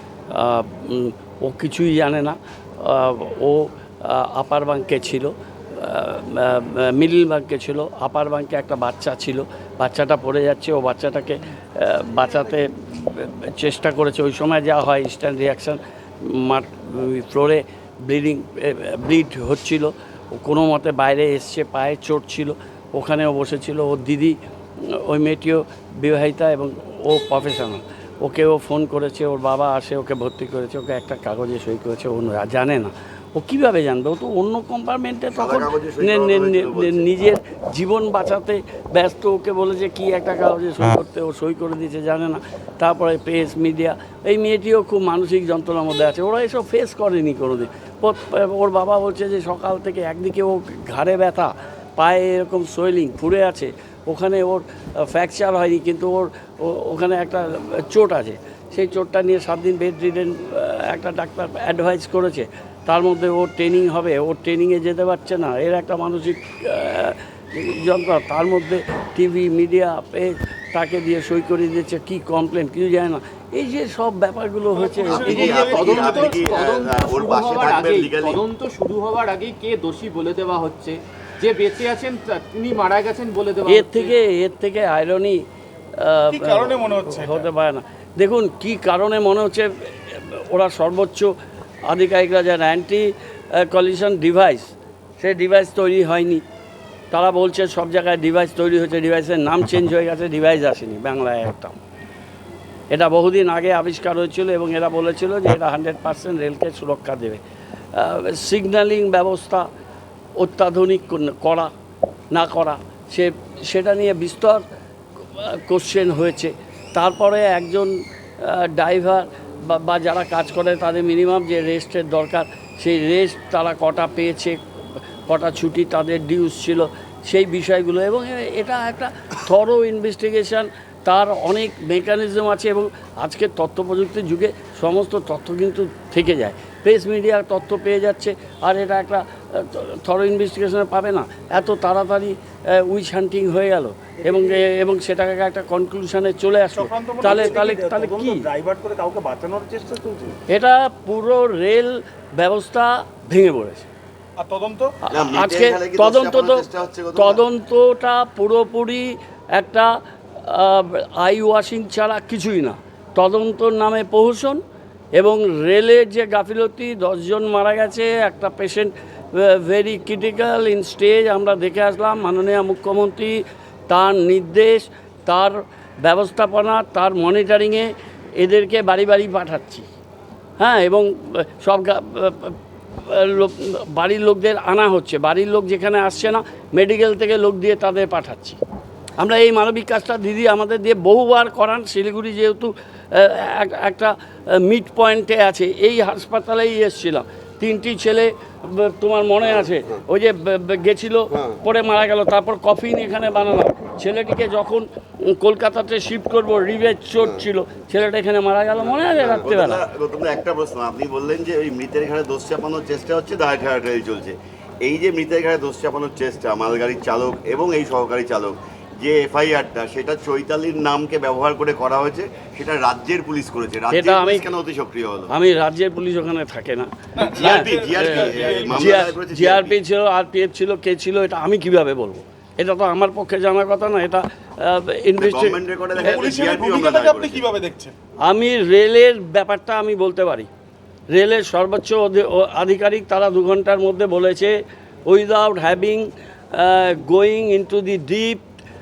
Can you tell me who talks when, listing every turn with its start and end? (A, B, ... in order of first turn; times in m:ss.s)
0:00.3-0:24.4 A
0:24.9-1:15.9 A
0:35.4-0:37.1 B
1:14.7-1:16.4 C
1:15.2-1:24.2 D
1:15.3-1:18.4 B
1:23.7-1:25.4 A
1:26.0-1:31.3 A
1:26.3-1:27.5 C
1:31.8-1:36.4 A
1:37.1-1:41.8 A
1:42.9-1:47.4 A
1:48.0-1:49.7 A
1:50.4-1:51.7 A
1:52.3-1:54.6 A
1:55.4-2:04.6 A
2:05.3-2:28.5 A
2:24.2-2:24.6 E
2:26.8-2:27.6 C
2:27.2-2:30.3 E
2:30.5-2:33.9 A
2:34.4-2:35.0 C
2:35.1-2:36.6 A
2:35.1-2:37.4 B
2:37.2-2:39.9 A
2:40.4-2:44.6 A
2:45.2-2:59.9 A
3:00.6-3:08.6 A
3:09.2-3:29.8 A
3:29.2-3:45.3 B
3:43.9-3:44.5 A
3:45.3-3:55.6 A
3:47.2-3:49.1 C
3:47.4-3:49.8 B
3:55.2-3:57.4 B
3:56.0-3:57.9 C
3:58.2-4:00.5 A
4:01.1-4:04.6 A
4:05.1-4:08.4 A